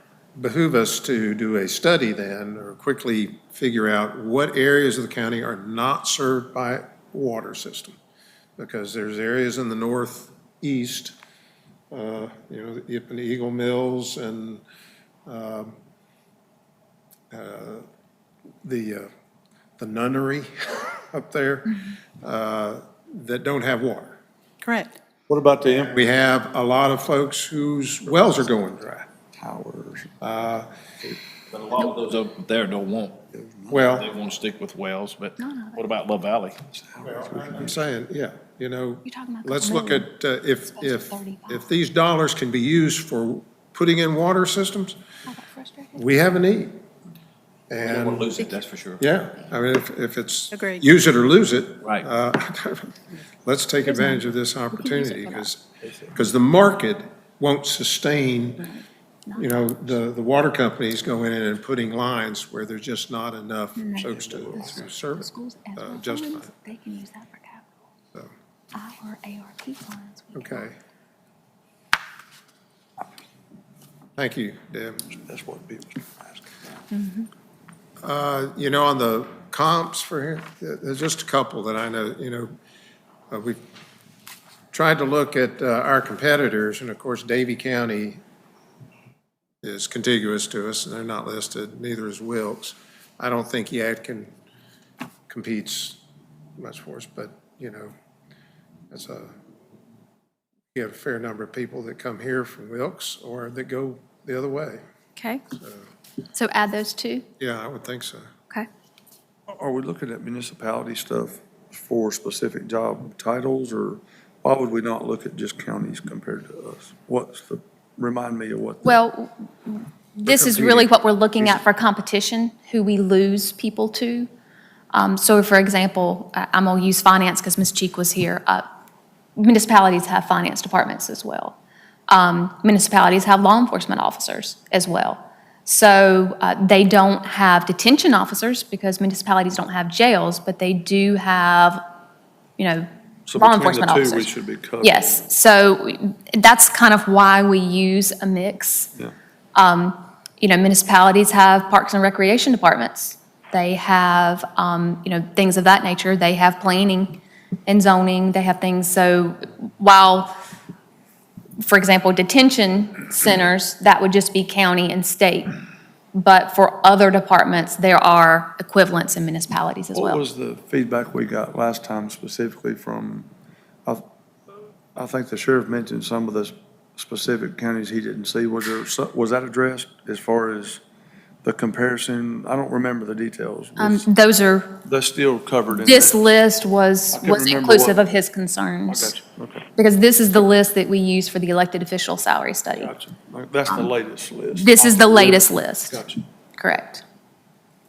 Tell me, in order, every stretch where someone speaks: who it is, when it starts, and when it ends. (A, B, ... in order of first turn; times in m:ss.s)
0:00.4-0:07.9 A
0:08.6-0:11.1 A
0:11.9-0:14.6 A
0:15.3-0:15.7 A
0:17.3-0:17.8 A
0:18.6-0:19.1 A
0:19.8-0:24.2 A
0:25.3-0:26.0 B
0:25.8-0:29.0 A
0:29.3-0:30.2 B
0:30.2-0:30.7 A
0:31.5-0:33.2 C
0:33.3-0:33.8 B
0:33.7-0:34.1 A
0:33.9-0:36.6 C
0:35.4-0:35.8 D
0:36.7-0:37.8 B
0:37.0-0:45.0 A
0:39.0-0:40.1 D
0:40.7-0:41.6 D
0:45.3-0:46.0 D
0:46.0-0:46.8 A
0:47.7-0:48.3 A
0:47.8-0:49.0 C
0:49.0-0:58.7 A
0:53.8-0:55.5 D
0:58.6-0:59.8 D
0:59.4-1:06.5 A
1:03.8-1:07.7 D
1:04.1-1:04.4 B
1:08.7-1:10.6 D
1:10.3-1:10.8 A
1:14.2-1:15.1 A
1:15.1-1:16.7 B
1:16.9-1:17.3 D
1:18.0-1:22.5 A
1:23.3-1:23.6 A
1:24.7-1:28.2 A
1:29.6-1:34.3 A
1:35.3-1:36.0 A
1:36.6-1:37.9 A
1:38.9-1:39.3 A
1:40.7-1:44.8 A
1:45.2-1:45.4 D
1:46.3-1:47.2 D
1:47.4-1:48.2 A
1:49.5-1:59.0 B
1:58.8-2:04.3 D
2:00.2-2:00.6 A
2:00.3-2:01.6 B
2:04.9-2:08.6 D
2:09.4-2:11.6 D
2:12.1-2:21.8 D
2:22.6-2:24.3 D
2:23.3-2:25.0 B
2:24.8-2:28.9 D
2:29.5-2:40.3 D
2:41.6-2:45.5 D
2:46.1-2:50.2 D
2:49.9-2:53.3 B
2:54.9-3:00.8 B
3:01.4-3:04.0 B
3:03.8-3:04.8 D
3:04.8-3:06.2 B
3:05.8-3:09.2 D
3:07.1-3:08.0 B
3:08.9-3:09.6 B
3:09.8-3:12.9 D
3:12.8-3:16.2 B
3:14.6-3:16.0 D
3:16.6-3:17.0 D